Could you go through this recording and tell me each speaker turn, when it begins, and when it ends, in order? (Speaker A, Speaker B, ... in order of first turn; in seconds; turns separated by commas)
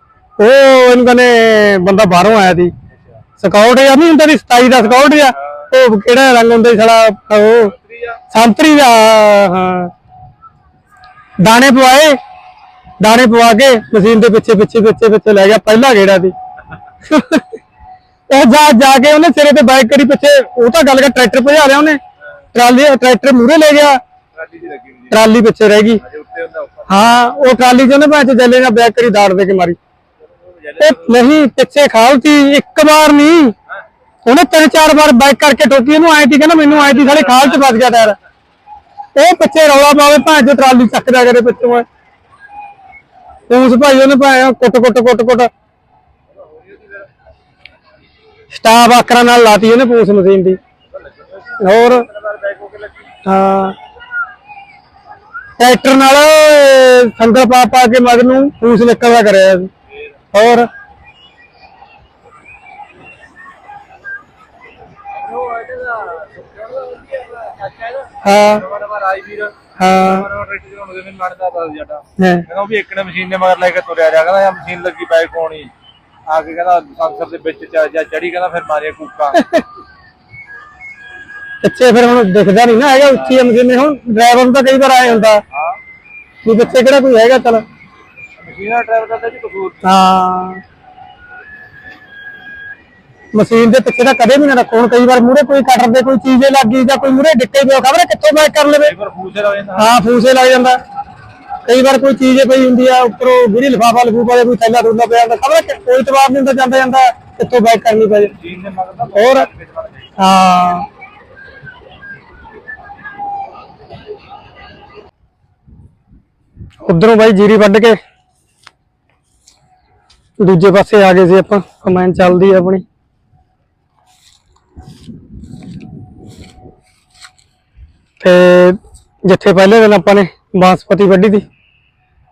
Speaker A: 0.4-2.7, Speaker B: 2.9-3.2, Speaker A: 3.4-7.7, Speaker B: 4.8-5.7, Speaker B: 7.6-8.2, Speaker A: 8.3-9.9, Speaker A: 11.4-12.2, Speaker A: 13.0-16.3, Speaker A: 17.1-17.5, Speaker A: 18.3-22.0, Speaker A: 22.5-24.0, Speaker B: 24.4-25.2, Speaker A: 25.1-26.0, Speaker B: 26.0-27.1, Speaker A: 26.9-29.8, Speaker B: 30.4-31.2, Speaker A: 30.8-33.5, Speaker A: 34.2-38.2, Speaker B: 36.7-37.6, Speaker A: 39.1-41.9, Speaker A: 43.5-45.5, Speaker B: 46.3-47.1, Speaker A: 48.5-50.6, Speaker B: 50.9-53.1, Speaker A: 51.6-52.1, Speaker A: 53.2-53.8, Speaker A: 55.6-59.7, Speaker A: 60.3-60.7, Speaker B: 65.1-75.7, Speaker A: 68.2-68.6, Speaker A: 69.8-70.3, Speaker A: 72.2-72.5, Speaker B: 76.3-79.4, Speaker A: 79.3-79.6, Speaker A: 81.6-85.4, Speaker B: 85.5-85.8, Speaker A: 86.5-87.7, Speaker B: 88.4-89.8, Speaker A: 89.8-90.6, Speaker A: 93.3-98.9, Speaker B: 98.8-100.0, Speaker A: 99.8-100.8, Speaker A: 101.7-108.3, Speaker B: 108.3-110.2, Speaker A: 109.2-109.5, Speaker A: 110.2-110.9, Speaker A: 116.8-118.0, Speaker A: 120.4-122.8, Speaker A: 128.2-131.4